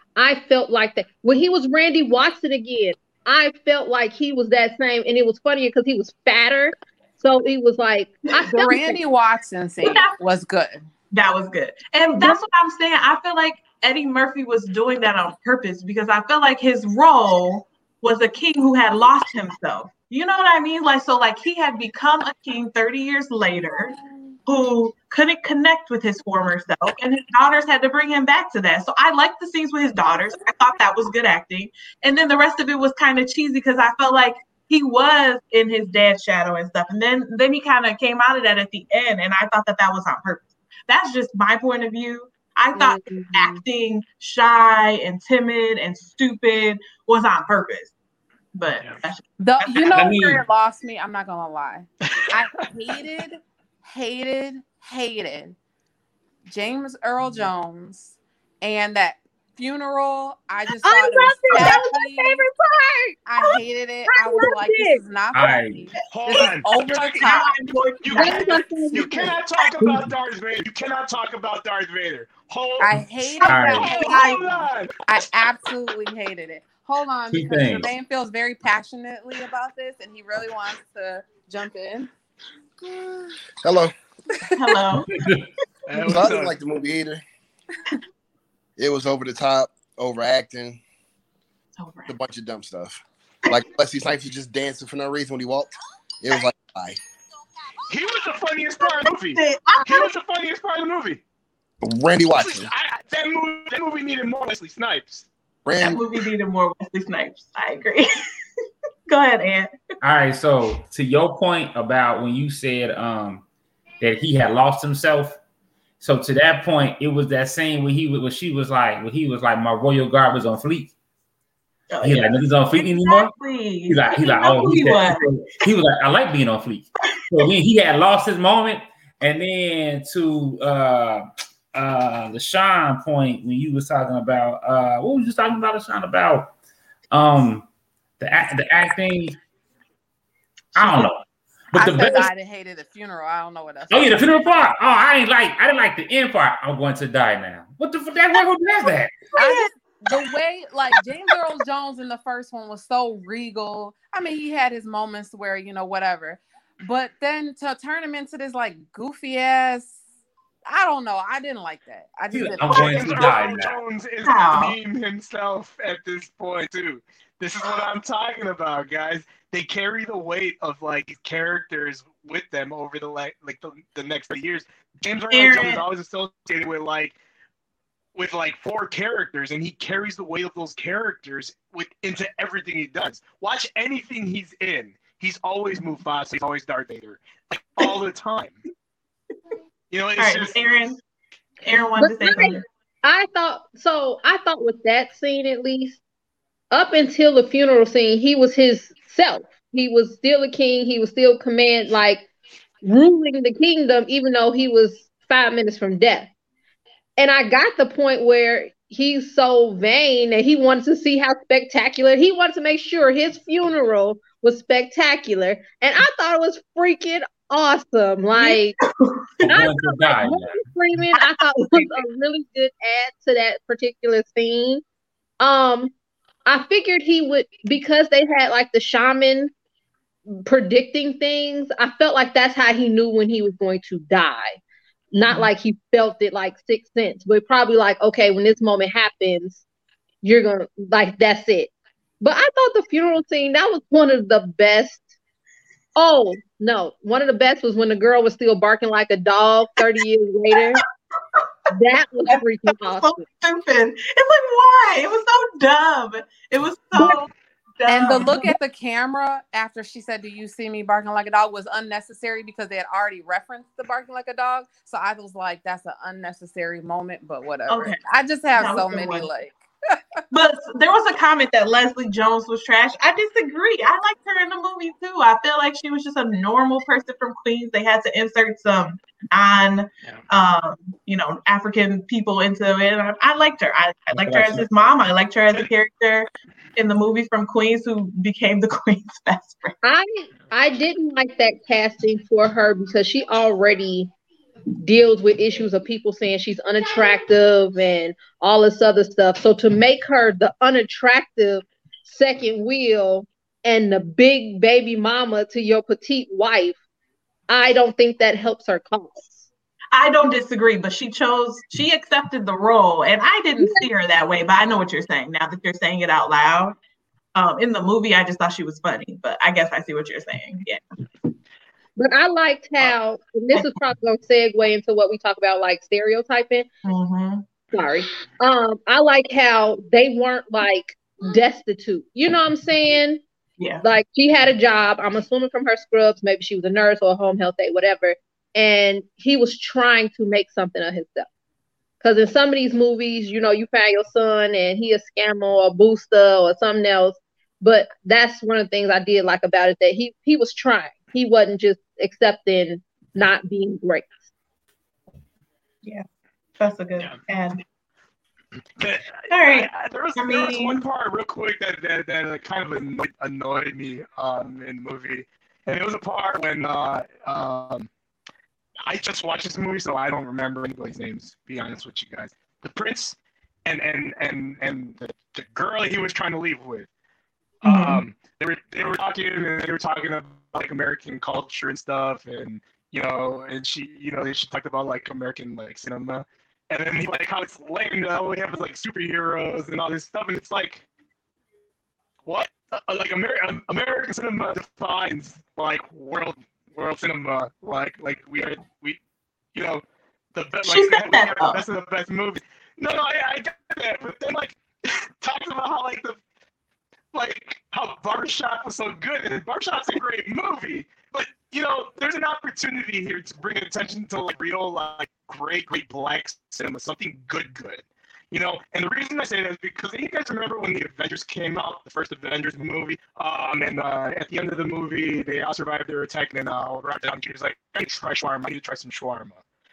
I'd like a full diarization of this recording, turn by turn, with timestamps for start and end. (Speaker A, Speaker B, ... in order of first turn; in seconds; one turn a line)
Speaker A: 0.2-9.0
Speaker B: 8.5-10.8
Speaker C: 9.8-10.1
Speaker C: 11.1-23.9
Speaker C: 24.5-47.9
Speaker A: 42.8-43.6
Speaker C: 48.6-50.0
Speaker B: 49.4-55.6
Speaker D: 49.8-50.4
Speaker B: 56.5-62.5
Speaker A: 60.8-63.6
Speaker B: 63.3-67.5
Speaker A: 64.2-65.0
Speaker D: 65.3-65.8
Speaker E: 66.1-67.4
Speaker C: 67.2-68.6
Speaker E: 68.0-72.9
Speaker A: 68.2-69.4
Speaker B: 72.8-74.4
Speaker C: 73.4-74.6
Speaker D: 73.4-74.1
Speaker E: 73.7-75.0
Speaker B: 75.1-82.1
Speaker D: 77.3-77.9
Speaker F: 83.6-84.0
Speaker C: 84.5-85.1
Speaker D: 85.0-85.5
Speaker E: 85.9-86.5
Speaker F: 86.0-87.2
Speaker B: 86.1-86.5
Speaker F: 88.8-90.8
Speaker C: 91.8-92.2
Speaker F: 92.1-97.0
Speaker E: 97.9-101.2
Speaker C: 98.8-100.1
Speaker F: 101.8-102.7
Speaker E: 102.3-105.3
Speaker F: 105.7-106.2
Speaker C: 105.8-108.1
Speaker C: 109.1-109.7
Speaker D: 110.0-113.4
Speaker D: 114.0-115.4
Speaker D: 116.0-120.9
Speaker C: 121.9-125.3
Speaker D: 122.0-123.3
Speaker D: 123.9-136.5
Speaker D: 137.1-137.7
Speaker D: 138.2-139.4
Speaker D: 140.8-142.3
Speaker C: 140.8-141.1
Speaker B: 141.7-144.3
Speaker D: 143.9-149.2
Speaker B: 149.4-160.0
Speaker B: 160.7-163.4
Speaker D: 162.3-163.8
Speaker E: 162.7-177.2
Speaker C: 164.2-164.8
Speaker C: 175.3-175.8
Speaker E: 178.2-188.6
Speaker E: 189.9-190.6
Speaker C: 190.2-191.0
Speaker C: 191.6-192.6
Speaker A: 192.0-196.0
Speaker A: 196.7-202.3
Speaker A: 202.8-206.3
Speaker A: 207.2-218.8
Speaker C: 218.4-219.6
Speaker D: 219.4-220.7
Speaker A: 219.4-224.8
Speaker C: 221.1-222.0
Speaker A: 225.4-225.9
Speaker A: 226.5-229.5
Speaker A: 230.3-234.6
Speaker A: 235.1-239.6
Speaker A: 240.2-245.0
Speaker A: 246.0-250.8
Speaker A: 251.7-253.2
Speaker C: 252.3-258.5
Speaker A: 256.9-257.2
Speaker B: 257.9-270.2
Speaker C: 267.7-268.0
Speaker C: 268.6-269.3
Speaker C: 270.3-289.8
Speaker D: 284.1-284.7
Speaker A: 289.8-294.1
Speaker A: 294.8-306.8
Speaker A: 307.5-309.5
Speaker C: 309.9-316.8
Speaker A: 313.6-313.9
Speaker C: 317.4-320.8
Speaker A: 322.0-326.7
Speaker C: 326.9-327.5
Speaker A: 327.7-333.2
Speaker A: 333.8-341.3
Speaker A: 342.0-354.2
Speaker C: 356.6-357.6
Speaker E: 358.8-367.9
Speaker C: 359.3-360.8
Speaker E: 368.9-376.9
Speaker E: 377.6-390.8
Speaker C: 377.6-378.0
Speaker E: 392.3-399.0
Speaker E: 399.5-399.8
Speaker E: 400.3-406.2
Speaker C: 400.6-401.6
Speaker E: 407.1-429.4